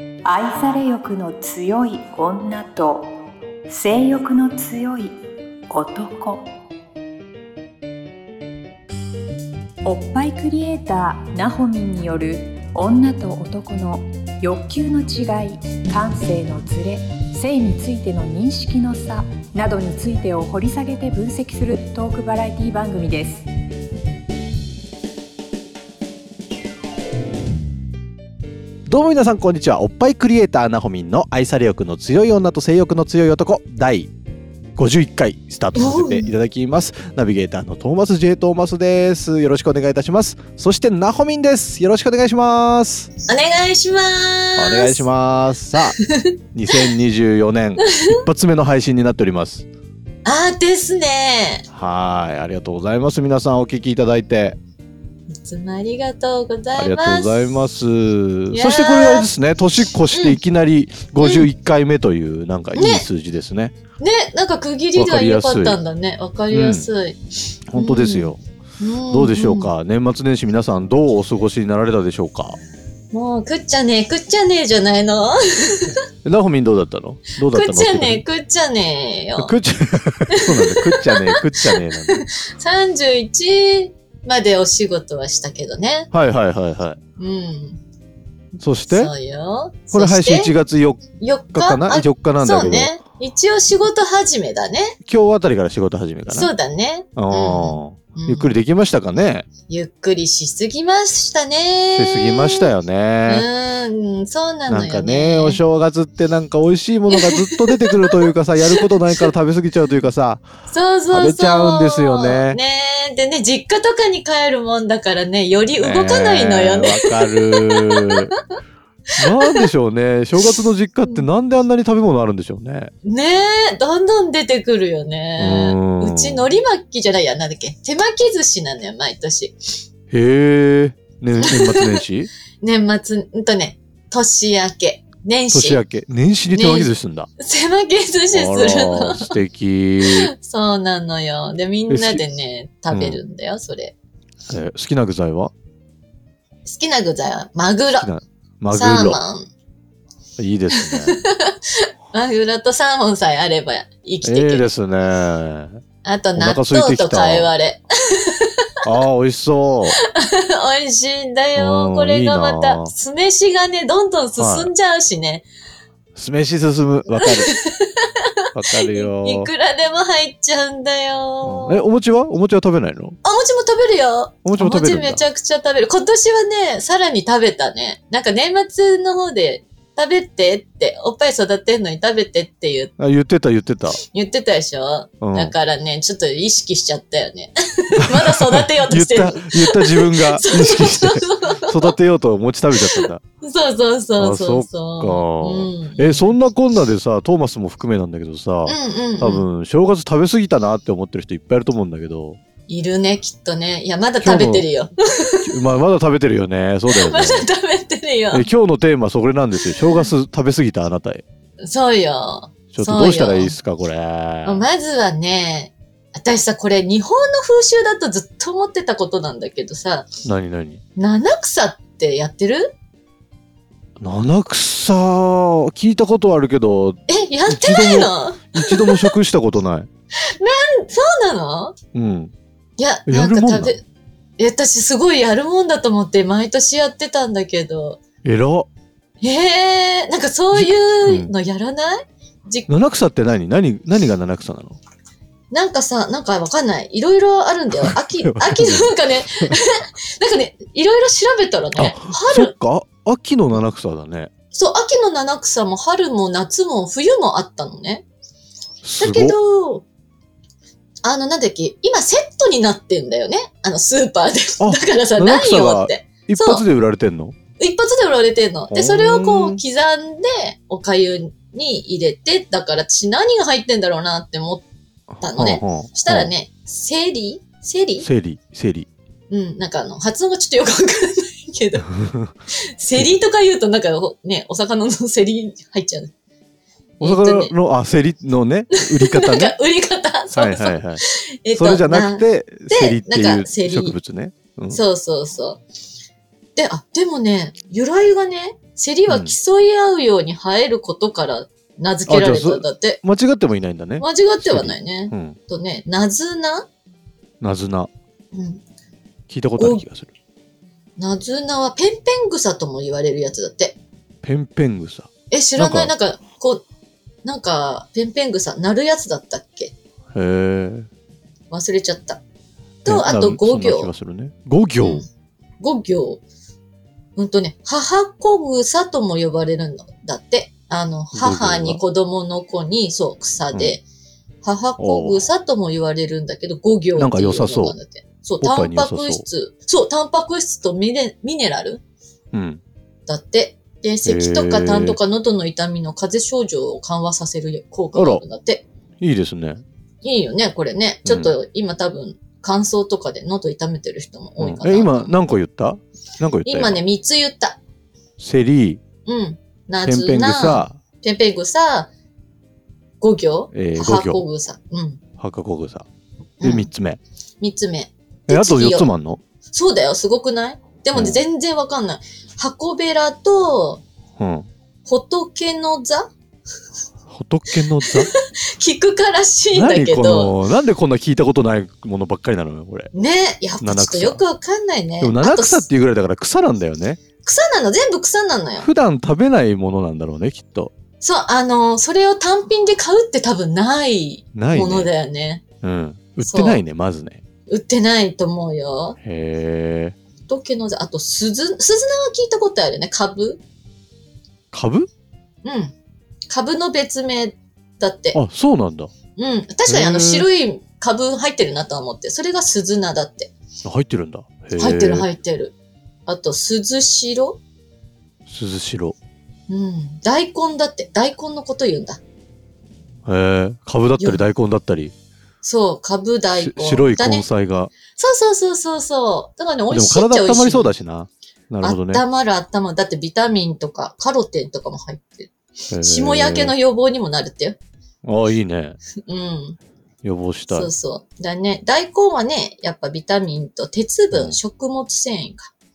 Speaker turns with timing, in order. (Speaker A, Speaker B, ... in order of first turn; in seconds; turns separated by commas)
Speaker A: 0.2-3.1, Speaker A: 3.7-5.2, Speaker A: 5.7-6.5, Speaker A: 9.8-23.4, Speaker B: 28.9-34.1, Speaker B: 34.8-43.1, Speaker C: 35.8-36.3, Speaker C: 43.3-45.0, Speaker B: 44.6-46.0, Speaker C: 46.0-46.8, Speaker B: 46.5-49.7, Speaker C: 47.9-48.2, Speaker C: 50.2-51.6, Speaker B: 51.7-54.6, Speaker C: 55.3-57.5, Speaker B: 56.7-63.7, Speaker C: 58.5-59.3, Speaker C: 60.1-60.4, Speaker C: 61.2-61.5, Speaker C: 62.7-63.0, Speaker C: 64.0-67.2, Speaker B: 65.0-65.8, Speaker B: 66.5-66.9, Speaker B: 67.7-68.4, Speaker C: 67.7-69.7, Speaker B: 69.1-72.6, Speaker C: 73.1-76.0, Speaker B: 76.2-78.2, Speaker C: 77.4-79.5, Speaker B: 79.4-82.2, Speaker C: 80.3-86.1, Speaker B: 86.1-87.0, Speaker C: 87.2-87.8, Speaker B: 88.6-89.1, Speaker C: 88.9-90.5, Speaker B: 89.9-91.0, Speaker C: 91.2-95.0, Speaker B: 91.5-92.9, Speaker B: 95.0-96.5, Speaker C: 96.3-98.5, Speaker B: 97.2-99.5, Speaker C: 99.7-102.7, Speaker B: 101.9-103.5, Speaker C: 103.2-105.6, Speaker B: 104.7-110.4, Speaker C: 107.1-109.2, Speaker C: 110.7-118.2, Speaker B: 111.1-112.6, Speaker B: 115.8-118.3, Speaker B: 119.2-122.9, Speaker C: 119.2-119.7, Speaker C: 123.0-129.6, Speaker B: 125.4-126.5, Speaker B: 130.1-132.3, Speaker C: 131.4-132.0, Speaker C: 132.6-135.8, Speaker B: 135.5-137.3, Speaker C: 136.5-139.4, Speaker B: 138.3-140.3, Speaker C: 140.0-143.9, Speaker B: 141.9-142.2, Speaker B: 142.9-143.2, Speaker B: 144.5-145.5, Speaker C: 146.6-148.1, Speaker B: 148.0-149.2, Speaker C: 148.7-149.5, Speaker B: 150.4-151.2, Speaker C: 150.7-154.7, Speaker B: 154.2-155.8, Speaker C: 156.0-158.7, Speaker B: 156.4-157.5, Speaker B: 158.8-160.0, Speaker C: 160.0-165.4, Speaker B: 161.6-162.9, Speaker B: 164.4-164.7, Speaker B: 166.1-167.5, Speaker C: 167.1-171.8, Speaker B: 168.5-169.5, Speaker B: 171.4-173.2, Speaker C: 173.2-182.9, Speaker B: 174.4-175.2, Speaker B: 183.0-184.0, Speaker C: 184.0-191.9, Speaker B: 185.2-185.5, Speaker B: 188.0-193.2, Speaker C: 192.7-196.3, Speaker B: 194.2-202.4, Speaker C: 198.7-199.4, Speaker C: 202.7-205.5, Speaker B: 204.2-204.7, Speaker B: 205.4-207.5, Speaker C: 206.9-208.5, Speaker B: 208.3-211.2, Speaker C: 209.6-210.1, Speaker C: 211.6-213.6, Speaker B: 212.7-214.7, Speaker C: 214.4-220.1, Speaker B: 220.2-220.8, Speaker C: 220.9-222.7, Speaker B: 224.0-229.9, Speaker C: 227.1-229.1, Speaker C: 230.3-231.7, Speaker B: 231.9-232.3, Speaker C: 232.8-233.8, Speaker B: 233.1-233.8, Speaker C: 234.4-238.0, Speaker B: 238.2-238.7, Speaker C: 239.2-242.7, Speaker B: 240.5-241.3, Speaker B: 242.7-244.8, Speaker C: 245.5-252.5, Speaker B: 247.7-249.5, Speaker B: 251.8-254.3, Speaker C: 254.5-258.0, Speaker B: 258.8-259.4, Speaker C: 259.0-259.8, Speaker C: 261.0-266.6, Speaker B: 264.6-267.3, Speaker C: 267.6-274.6, Speaker B: 268.7-269.6, Speaker C: 275.2-278.1, Speaker B: 275.3-276.3, Speaker B: 278.0-278.9, Speaker C: 279.3-281.9, Speaker C: 282.8-286.1, Speaker C: 287.0-287.5, Speaker B: 287.0-289.5, Speaker C: 288.7-293.9, Speaker B: 290.3-291.0, Speaker B: 291.5-294.8, Speaker C: 294.7-295.6, Speaker C: 296.6-303.0, Speaker B: 299.1-299.3, Speaker B: 302.1-305.4, Speaker C: 304.0-306.7, Speaker B: 307.4-307.9, Speaker C: 308.3-308.6, Speaker B: 309.3-310.1, Speaker C: 309.6-309.8, Speaker C: 311.0-313.8, Speaker B: 314.2-315.9, Speaker C: 315.3-316.6, Speaker C: 317.2-319.7, Speaker B: 320.1-320.9, Speaker C: 321.5-322.2, Speaker C: 322.8-323.9, Speaker B: 322.9-325.0, Speaker C: 325.6-326.2, Speaker C: 327.1-333.8, Speaker B: 331.1-331.8, Speaker C: 334.4-341.8, Speaker B: 334.8-335.3, Speaker B: 336.9-337.8, Speaker B: 338.4-339.2, Speaker B: 342.3-342.6, Speaker C: 343.1-348.6, Speaker B: 344.0-345.0, Speaker B: 347.9-348.2, Speaker B: 349.0-349.6, Speaker C: 350.0-355.2, Speaker B: 351.0-351.3, Speaker B: 354.4-356.8, Speaker C: 356.4-357.6, Speaker B: 358.2-358.8, Speaker C: 359.0-361.9, Speaker B: 359.8-360.8, Speaker C: 363.0-365.0, Speaker B: 363.5-364.2, Speaker B: 365.2-365.9, Speaker C: 366.4-366.7, Speaker B: 366.4-367.0, Speaker C: 367.4-368.9, Speaker B: 368.3-369.2, Speaker C: 369.5-373.8, Speaker B: 370.9-371.2, Speaker B: 374.2-374.5, Speaker C: 374.8-376.1, Speaker B: 377.1-378.1, Speaker C: 377.8-380.4, Speaker B: 379.5-382.9, Speaker C: 382.9-385.6, Speaker B: 383.6-384.2, Speaker B: 385.0-387.0, Speaker C: 387.2-388.7, Speaker B: 388.6-390.7, Speaker C: 391.0-395.4, Speaker B: 394.3-394.9, Speaker B: 395.6-397.2, Speaker C: 396.2-396.6, Speaker C: 397.5-399.0, Speaker B: 399.0-399.9, Speaker C: 400.3-403.4, Speaker B: 404.5-404.9, Speaker C: 405.4-405.7, Speaker C: 406.3-408.2, Speaker B: 408.1-408.9, Speaker C: 409.1-413.3, Speaker B: 409.7-410.3, Speaker B: 413.6-415.1, Speaker C: 414.6-415.5, Speaker C: 416.1-417.4, Speaker B: 418.3-418.9, Speaker C: 419.5-422.0, Speaker B: 423.1-424.9, Speaker C: 425.4-427.3, Speaker B: 426.4-427.7, Speaker C: 427.9-430.7, Speaker B: 429.7-432.0, Speaker C: 431.6-437.6, Speaker B: 435.7-436.5, Speaker B: 438.0-438.8, Speaker C: 439.1-439.6, Speaker B: 440.0-440.7, Speaker C: 440.5-445.5, Speaker B: 444.1-444.4